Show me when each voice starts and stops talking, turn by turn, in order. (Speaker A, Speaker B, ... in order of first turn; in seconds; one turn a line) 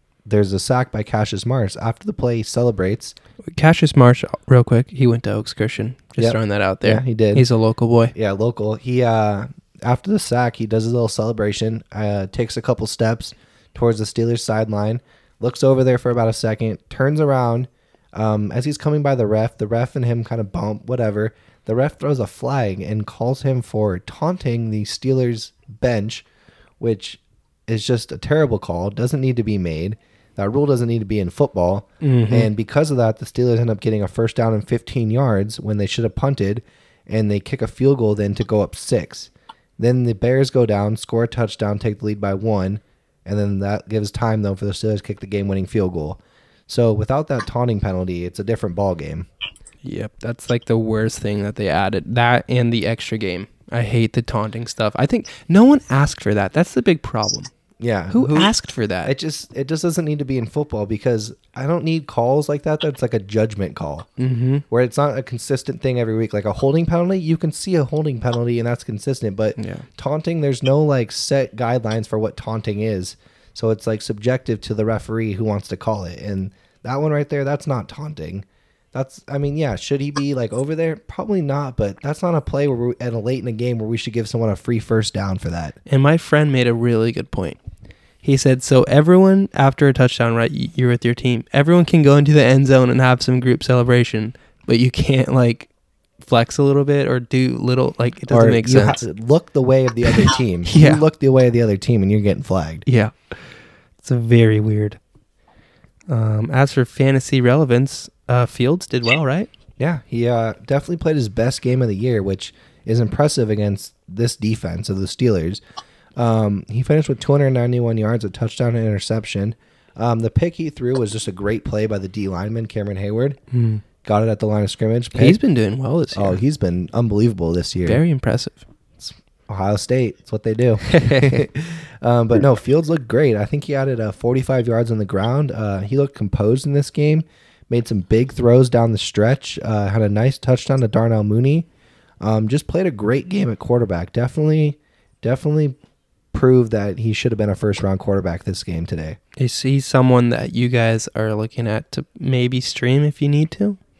Speaker A: 0.2-3.1
Speaker B: 3.4-8.1
Speaker A: 6.2-7.5
Speaker A: 8.1-26.2
Speaker A: 26.8-49.3
Speaker B: 32.0-32.5
Speaker B: 49.8-57.5
Speaker A: 57.8-58.5
Speaker B: 58.1-59.1
Speaker A: 59.0-64.1
Speaker B: 64.2-64.6
Speaker A: 64.7-85.8
Speaker B: 69.6-69.8
Speaker B: 85.9-87.6
Speaker B: 88.2-95.7
Speaker B: 96.2-99.0
Speaker A: 98.3-102.8
Speaker B: 100.1-101.0
Speaker B: 102.8-103.1
Speaker B: 104.0-105.0
Speaker B: 106.1-109.5
Speaker A: 109.8-115.6
Speaker A: 116.2-123.4
Speaker B: 123.5-123.8
Speaker A: 124.0-125.4
Speaker B: 125.1-126.4
Speaker A: 126.1-128.0
Speaker B: 127.8-128.6
Speaker A: 129.0-141.7
Speaker B: 130.8-131.4
Speaker A: 142.2-145.8
Speaker A: 146.3-149.2
Speaker B: 149.4-153.8